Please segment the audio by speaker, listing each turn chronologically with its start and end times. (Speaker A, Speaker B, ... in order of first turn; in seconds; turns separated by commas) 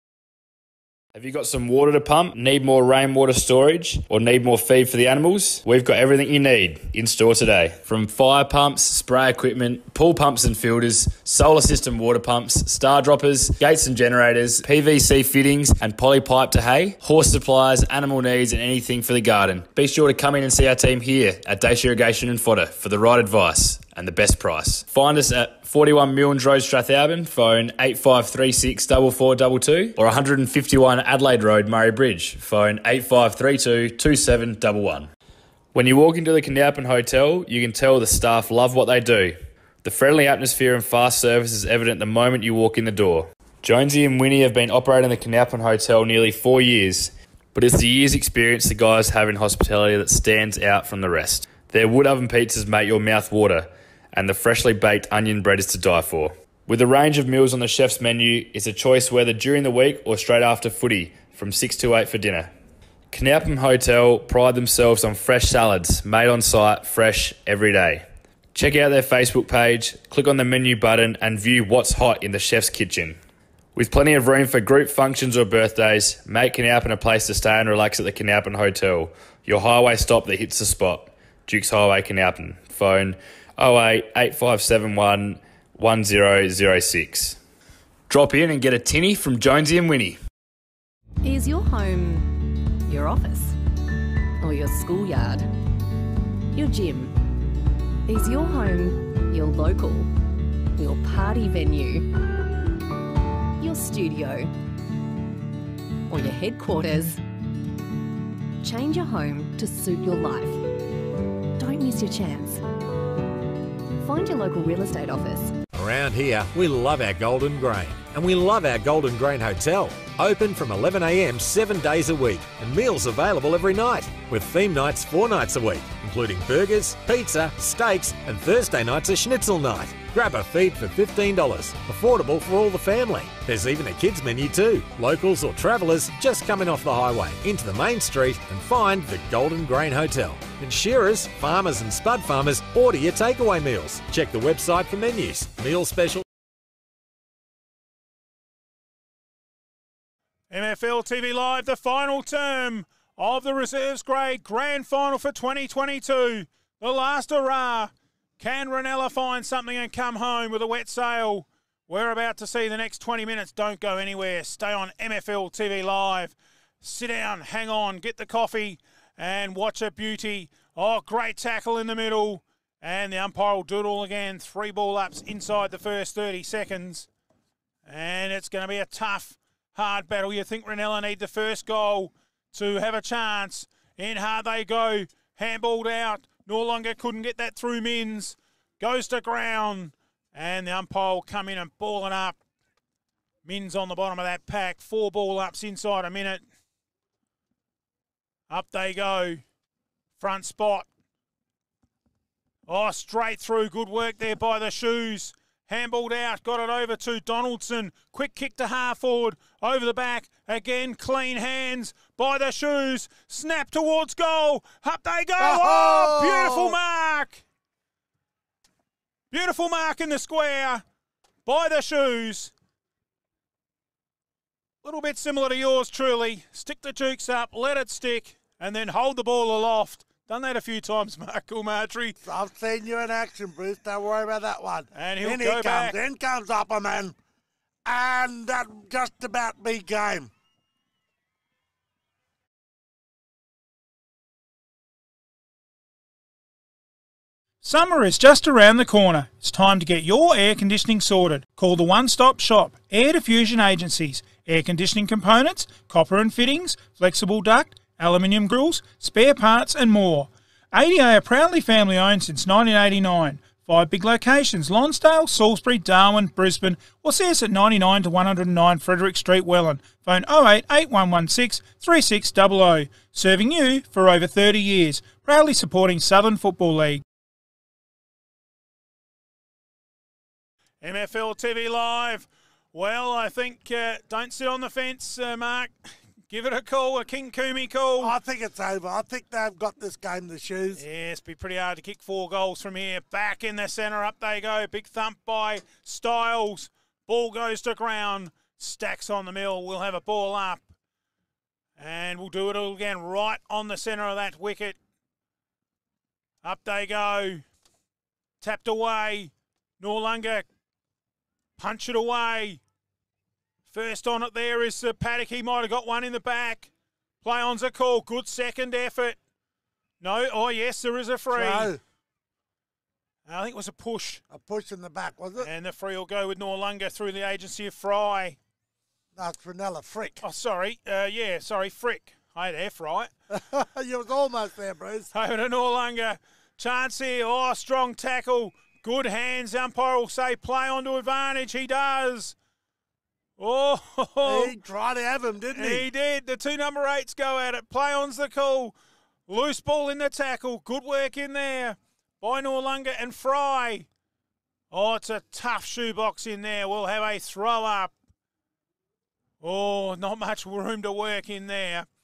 Speaker A: 1.1-35.1, Speaker A: 35.7-62.5, Speaker A: 63.1-73.2, Speaker A: 73.7-87.4, Speaker A: 88.1-90.2, Speaker B: 91.2-93.6, Speaker B: 94.4-95.5, Speaker B: 96.5-97.2, Speaker B: 98.1-100.1, Speaker B: 100.8-102.1, Speaker B: 103.6-104.5, Speaker B: 106.1-107.2, Speaker B: 108.6-110.6, Speaker B: 111.6-112.6, Speaker B: 114.0-115.6, Speaker C: 115.7-146.2, Speaker D: 150.5-177.1, Speaker D: 177.8-192.4, Speaker D: 193.4-196.4, Speaker D: 198.5-199.4, Speaker D: 200.2-200.9, Speaker D: 202.7-217.4, Speaker E: 215.4-216.8, Speaker D: 219.3-220.8, Speaker D: 221.4-222.5, Speaker D: 224.8-232.2, Speaker E: 232.2-237.2, Speaker D: 234.9-235.9, Speaker E: 237.8-240.3, Speaker D: 247.6-277.0, Speaker D: 280.8-285.8, Speaker D: 286.3-288.1, Speaker E: 288.0-290.8, Speaker D: 290.8-300.7, Speaker D: 301.8-304.8, Speaker D: 306.4-307.4, Speaker D: 308.4-310.5, Speaker D: 311.6-312.6, Speaker D: 313.7-316.7, Speaker D: 317.2-319.2, Speaker D: 320.0-321.7, Speaker E: 321.3-321.8, Speaker D: 323.2-324.2, Speaker E: 324.3-325.5, Speaker D: 325.4-328.4, Speaker E: 329.1-330.2, Speaker D: 330.2-333.1, Speaker E: 333.3-335.1, Speaker D: 335.1-342.4, Speaker D: 343.4-344.5, Speaker E: 344.2-345.9, Speaker D: 345.5-348.7, Speaker D: 349.3-353.9, Speaker D: 354.7-357.9, Speaker D: 359.4-361.9